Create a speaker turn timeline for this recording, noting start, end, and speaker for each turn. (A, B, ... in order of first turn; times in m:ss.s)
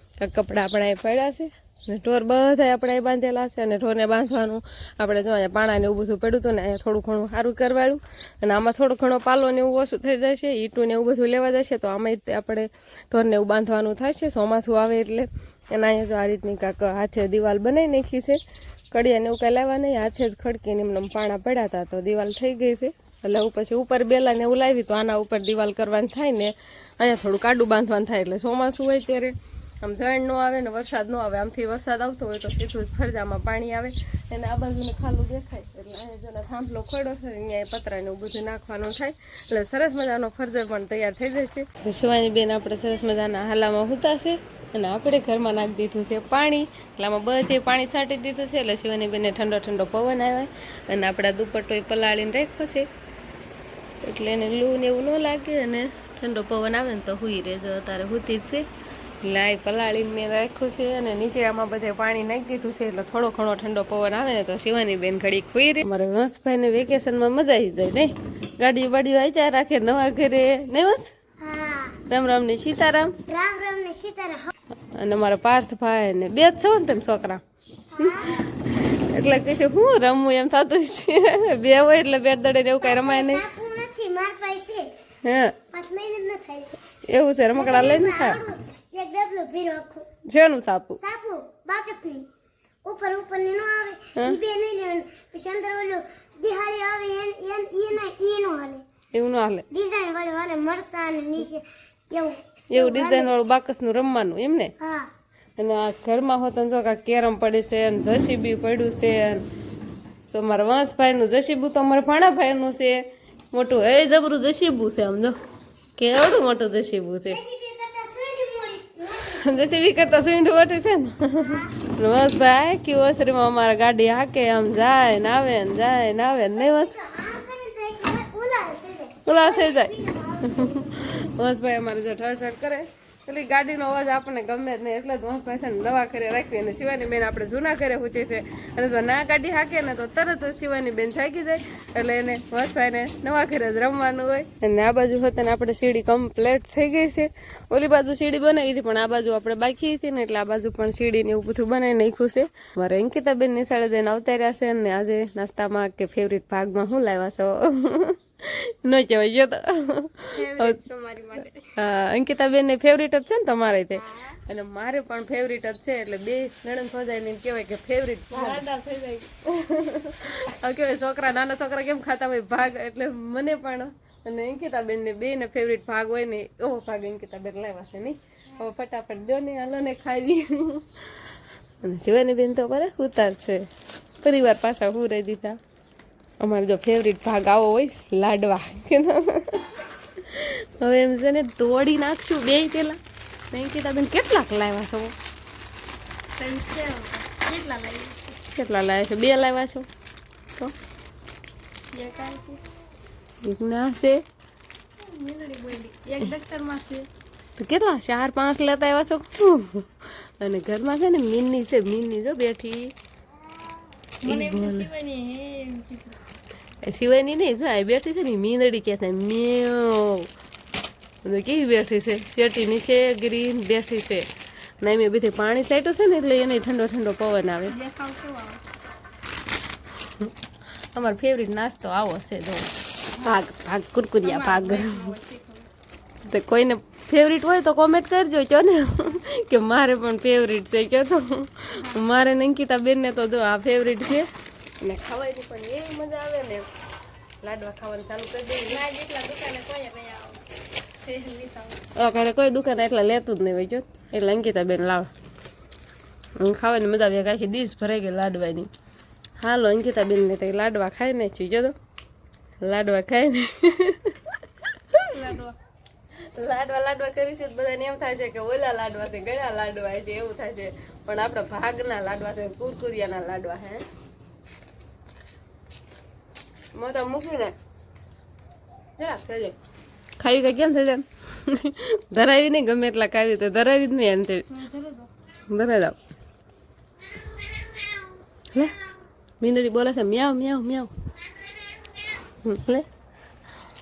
0:00.2-0:18.4 A
0:18.9-0:52.9 A
0:54.0-0:58.6 A
0:59.2-1:11.1 A
1:11.4-1:12.0 B
1:12.1-1:13.2 A
1:13.3-1:14.5 B
1:14.9-1:17.4 A
1:17.9-1:18.5 B
1:18.0-1:23.4 A
1:22.8-1:24.9 B
1:25.2-1:25.6 A
1:25.7-1:26.7 B
1:27.1-1:28.4 A
1:27.5-1:30.1 B
1:30.3-1:31.0 A
1:31.0-1:32.3 B
1:32.8-1:38.8 B
1:39.1-1:39.6 A
1:39.7-1:43.3 B
1:42.7-1:44.7 A
1:44.8-1:45.1 B
1:45.6-1:49.4 A
1:50.3-1:55.4 A
1:56.0-1:57.4 A
1:57.3-1:59.7 B
1:59.3-2:06.9 A
2:01.4-2:01.7 B
2:06.5-2:11.0 B
2:09.2-2:40.8 A
2:40.3-2:41.7 C
2:41.7-3:01.2 A
2:48.3-2:48.9 C
3:01.8-3:03.7 A
3:04.2-3:05.6 A
3:06.4-3:13.0 A
3:13.5-3:15.1 A
3:16.4-3:18.4 C
3:18.4-3:19.9 A
3:21.9-3:22.6 C
3:23.4-3:24.2 A
3:25.0-3:27.1 C
3:27.6-3:32.9 A
3:34.2-3:34.9 A
3:34.2-3:36.2 C
3:36.8-3:40.3 A
3:41.2-3:44.2 A
3:44.8-3:47.8 A
3:47.7-3:48.6 C
3:50.9-3:55.1 A
3:54.2-3:55.7 C
3:56.2-4:04.3 A
4:04.8-4:06.6 A
4:07.4-4:08.8 A
4:08.7-4:10.4 C
4:11.0-4:11.8 C
4:12.0-4:15.1 A
4:16.4-4:18.7 A
4:19.4-4:21.8 A
4:22.6-4:24.4 A
4:24.9-4:25.3 A
4:25.0-4:25.6 C
4:26.4-4:33.8 A
4:36.7-4:37.5 A
4:39.0-4:39.5 A
4:40.2-4:44.6 A
4:44.5-4:45.1 C
4:45.5-4:46.0 A
4:49.4-4:50.9 A
4:52.4-4:52.8 A